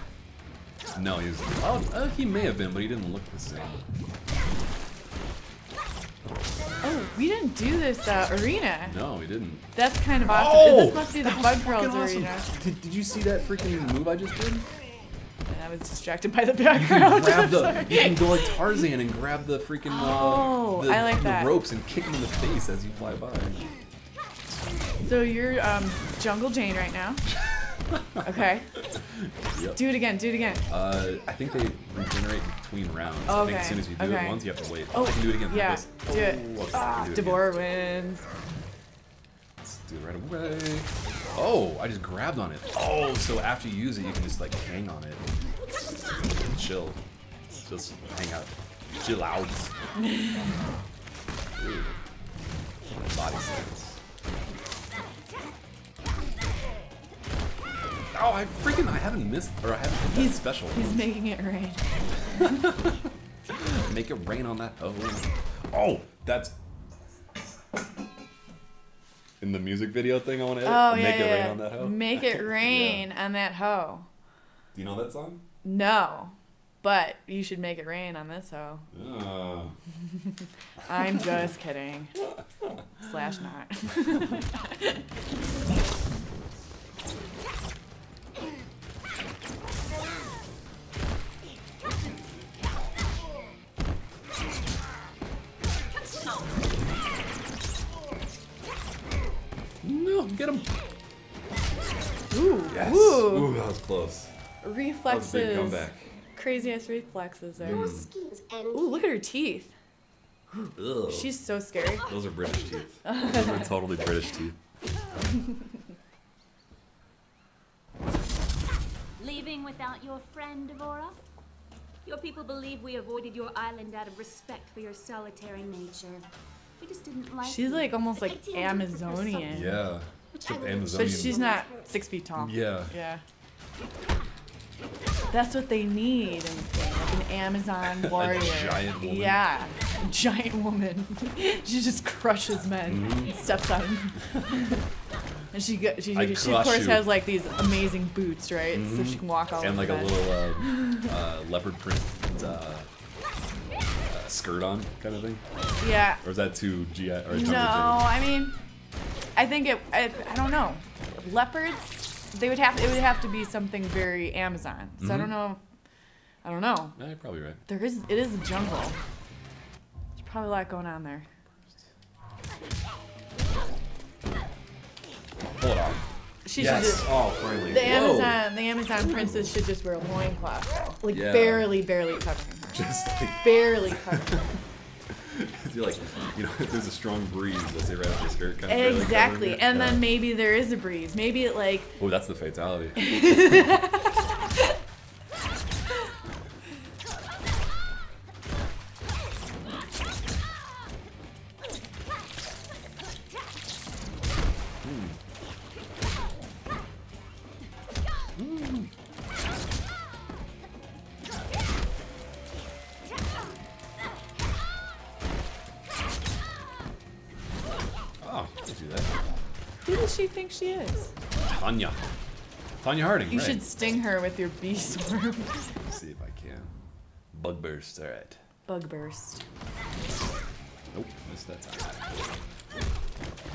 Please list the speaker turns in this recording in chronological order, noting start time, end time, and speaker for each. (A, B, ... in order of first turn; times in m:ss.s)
0:00.9-0:03.8 A
0:06.8-0:09.0 B
0:08.8-0:09.7 A
0:09.7-0:12.5 B
0:10.2-0:14.7 A
0:15.5-0:18.8 B
0:16.7-0:23.7 A
0:19.9-0:21.6 B
0:25.0-0:27.3 B
0:27.9-0:28.2 A
0:28.2-0:28.7 B
0:29.1-0:29.8 A
0:29.8-0:30.6 B
0:30.7-0:37.5 A
0:33.3-0:38.3 B
0:39.6-0:45.2 A
0:46.2-0:47.0 A
0:47.6-0:49.7 A
0:50.0-0:50.5 B
0:51.6-0:52.0 A
0:53.0-0:54.0 A
0:58.1-1:01.1 A
1:00.1-1:02.0 B
1:03.5-1:06.6 A
1:09.4-1:13.1 A
1:10.6-1:14.1 B
1:14.7-1:15.4 A
1:15.6-1:18.9 B
1:18.9-1:19.8 A
1:20.8-1:22.2 B
1:23.0-1:25.0 B
1:39.8-1:40.7 A
1:42.3-1:43.5 B
1:42.7-1:44.3 A
1:44.6-1:48.0 B
1:45.1-1:46.1 A
1:47.6-1:48.1 A
1:47.6-1:49.1 C
1:48.7-1:49.7 B
1:50.5-1:52.1 B
1:50.8-1:51.4 A
1:52.0-1:54.6 A
1:53.0-1:53.7 B
1:59.2-2:01.2 D
2:02.0-2:06.3 D
2:06.8-2:08.1 D
2:07.4-2:09.8 B
2:08.2-2:09.7 C
2:09.5-2:11.4 A
2:10.4-2:12.0 C
2:10.9-2:13.2 B
2:12.4-2:12.9 A
2:15.3-2:24.8 B
2:17.8-2:19.4 A
2:22.9-2:23.4 A
2:25.5-2:31.0 B
2:26.1-2:27.1 A
2:28.7-2:32.9 A
2:34.1-2:35.4 A
2:35.8-2:36.2 B
2:36.2-2:38.1 A
2:37.3-2:38.6 B
2:39.4-2:45.6 B
2:45.0-2:45.4 A
2:46.4-2:47.0 B
2:47.0-2:47.6 A
2:47.7-2:49.0 B
2:50.2-2:51.3 B
2:55.6-2:56.0 A
2:56.4-3:02.8 B
2:56.6-2:58.4 A
2:59.1-2:59.6 A
3:01.1-3:01.8 A
3:02.7-3:04.3 A
3:03.4-3:04.4 B
3:05.1-3:10.1 A
3:08.7-3:12.0 B
3:12.0-3:13.6 A
3:13.0-3:14.2 B
3:24.8-3:25.2 A
3:28.4-3:28.9 A
3:38.2-3:39.2 A
3:39.8-3:41.1 B
3:41.4-3:42.0 A
3:42.8-3:43.6 A
3:43.3-3:45.7 B
3:45.9-3:46.7 A
3:47.3-3:48.4 A
3:48.7-3:49.4 B
3:50.9-3:52.0 A